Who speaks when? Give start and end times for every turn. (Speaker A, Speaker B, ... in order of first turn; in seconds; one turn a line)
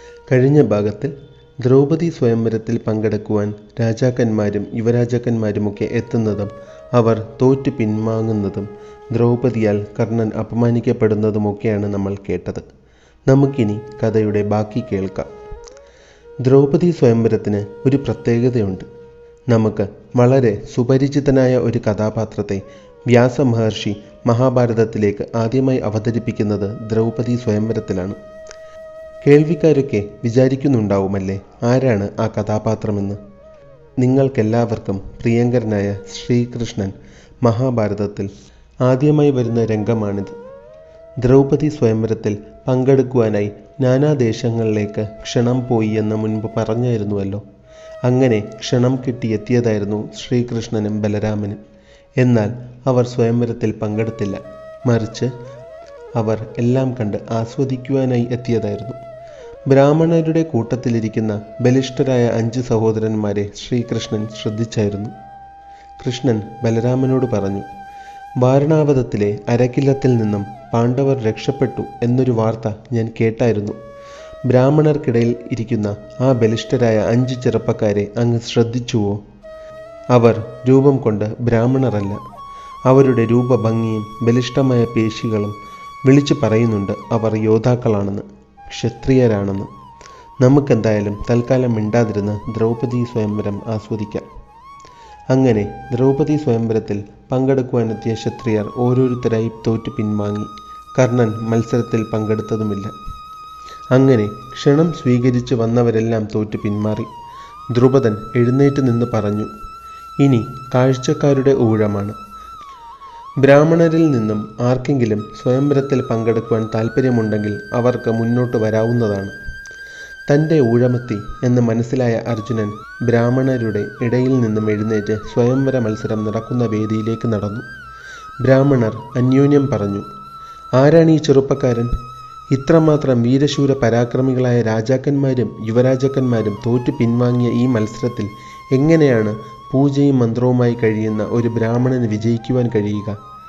Speaker A: 0.3-12.6
Speaker A: 13.3-15.3
Speaker A: 16.4-18.8
Speaker A: 19.5-28.2
Speaker A: 29.2-33.2
Speaker A: 34.0-38.3
Speaker A: 38.8-40.3
Speaker A: 41.2-47.4
Speaker A: 48.0-51.6
Speaker A: 52.2-55.3
Speaker A: 56.1-59.0
Speaker A: 59.7-65.1
Speaker A: 66.0-67.7
Speaker A: 68.4-73.8
Speaker A: 74.5-79.2
Speaker A: 80.1-82.2
Speaker A: 82.9-85.5
Speaker A: 86.0-89.7
Speaker A: 90.4-94.2
Speaker A: 95.3-102.9
Speaker A: 103.9-107.1
Speaker A: 107.7-109.5
Speaker A: 110.2-112.1
Speaker A: 113.4-119.3
Speaker A: 120.3-127.6
Speaker A: 128.4-130.0
Speaker A: 130.8-131.9
Speaker A: 132.5-143.2